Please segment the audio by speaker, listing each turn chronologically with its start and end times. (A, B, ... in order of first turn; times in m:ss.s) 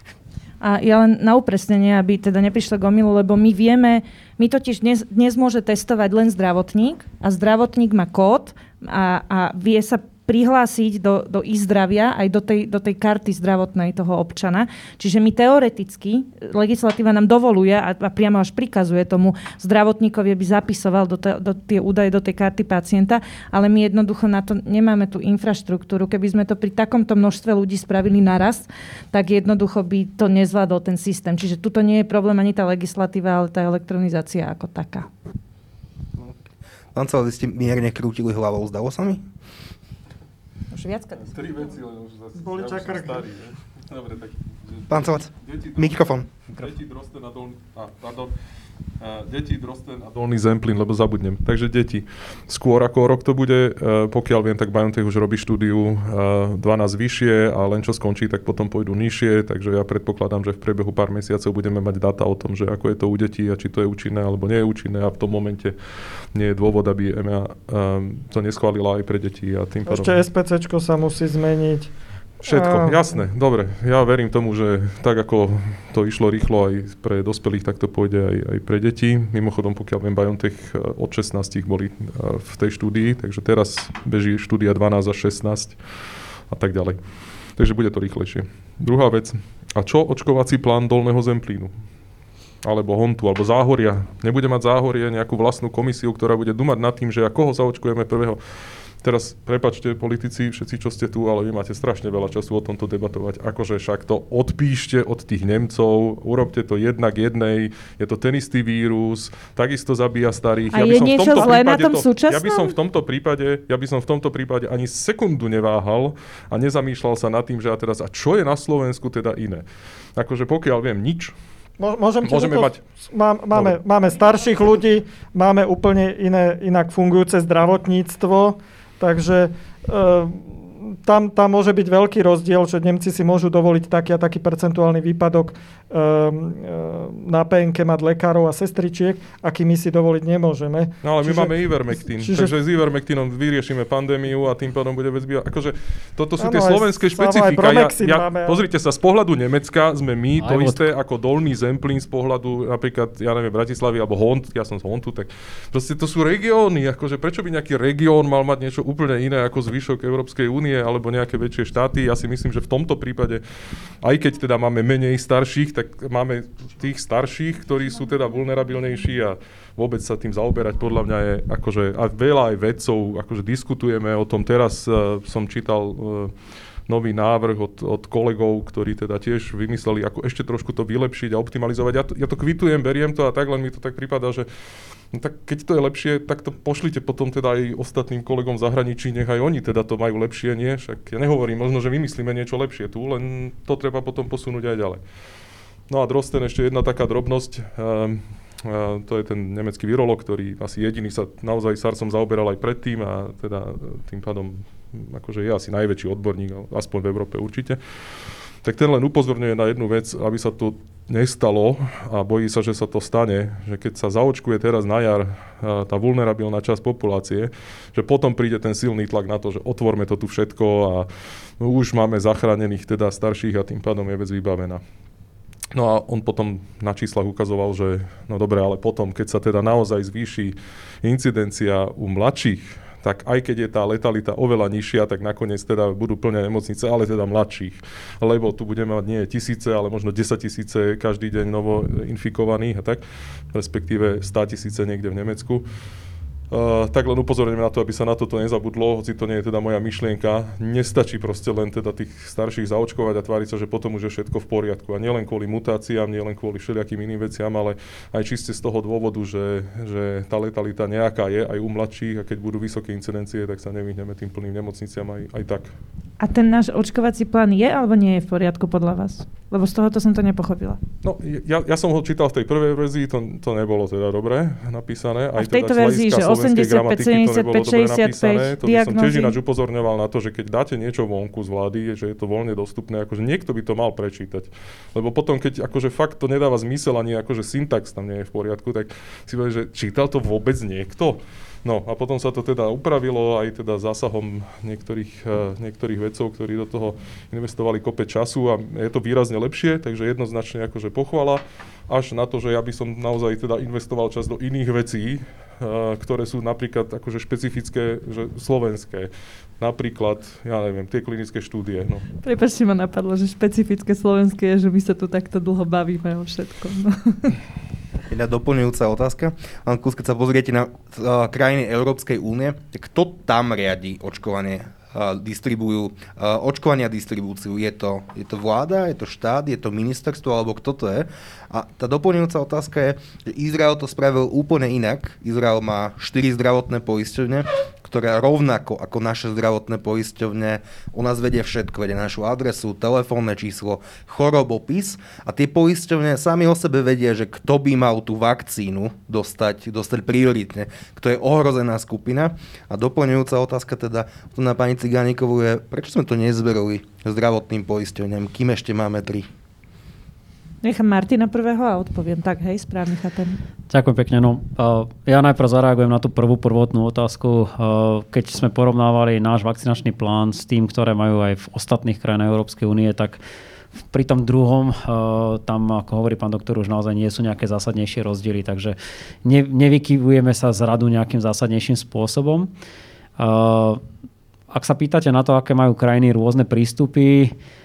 0:00.6-0:35.1 A
0:36.9-0:39.2 B
0:40.7-0:41.3 A
0:41.3-0:48.3 C
0:42.4-0:43.3 D
0:44.9-0:46.3 B
0:49.0-1:05.8 C
1:06.3-1:10.2 C
1:09.9-1:11.9 D
1:12.4-1:13.1 D
1:12.4-1:25.8 C
1:26.5-1:27.0 C
1:27.6-1:31.7 C
1:32.6-1:59.6 C
1:50.7-1:52.7 A
2:00.2-2:01.3 C
2:01.8-2:21.6 D
2:02.2-2:02.8 C
2:21.0-2:43.4 C
2:22.2-2:22.5 D
2:26.4-2:28.6 D
2:30.4-2:30.8 E
2:44.0-2:56.3 C
2:56.9-3:04.5 C
3:05.1-3:15.0 C
3:15.9-3:27.8 C
3:28.6-3:41.1 C
3:41.6-3:44.8 C
3:45.7-4:05.6 C
4:06.5-4:25.7 C
4:26.2-4:30.8 A
4:31.0-5:12.1 C
4:35.4-4:39.3 A
5:12.2-5:17.4 A
5:18.1-5:59.3 B
6:00.6-6:03.4 A
6:03.7-6:13.2 E
6:13.9-6:22.5 E
6:23.2-6:23.8 E
6:24.5-6:27.3 E